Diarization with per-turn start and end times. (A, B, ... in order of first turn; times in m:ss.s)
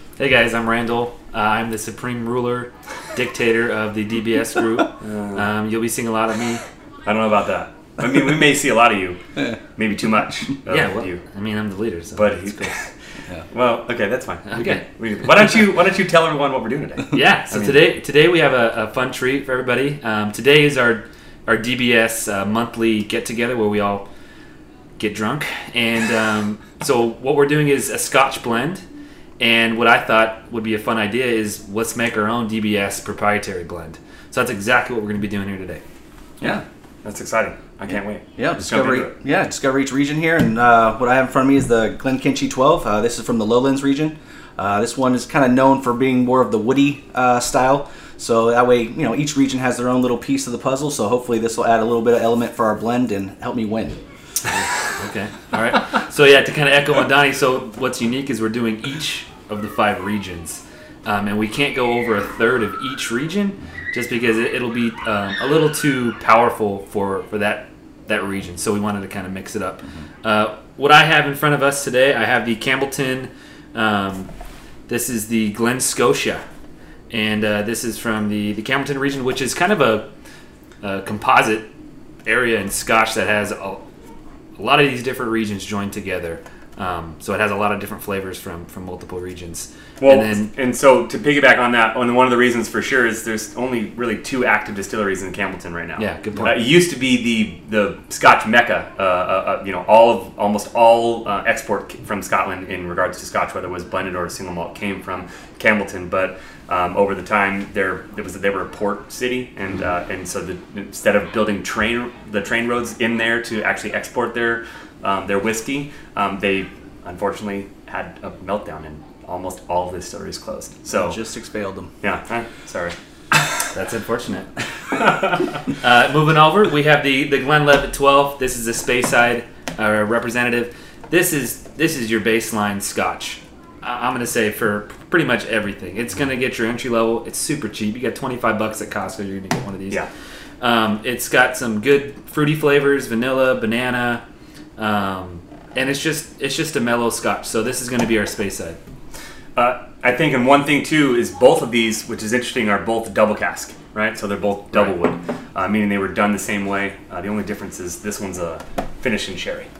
0:00.2-0:06.6 A
0:05.0-0:05.4 B
0:07.0-0:09.2 B
0:09.8-0:11.2 B
0:10.7-0:12.7 A
0:12.2-0:12.9 B
0:13.5-0:17.9 B
0:14.5-0:14.8 A
0:17.1-0:24.0 A
0:25.0-0:28.8 A
0:29.4-0:35.8 A
0:36.4-0:39.1 B
0:38.3-0:54.0 C
0:55.0-1:14.3 A
1:14.9-1:16.4 A
1:17.1-1:20.1 A
1:20.8-1:21.7 A
1:22.2-1:23.8 A
1:24.6-1:30.5 A
1:30.0-2:01.2 B
1:36.0-1:36.7 A
2:00.9-2:01.9 C
2:02.0-2:02.9 B
2:03.7-2:04.5 A
2:05.8-2:20.0 A
2:20.6-2:24.2 A
2:24.8-2:28.8 A
2:29.6-2:39.7 B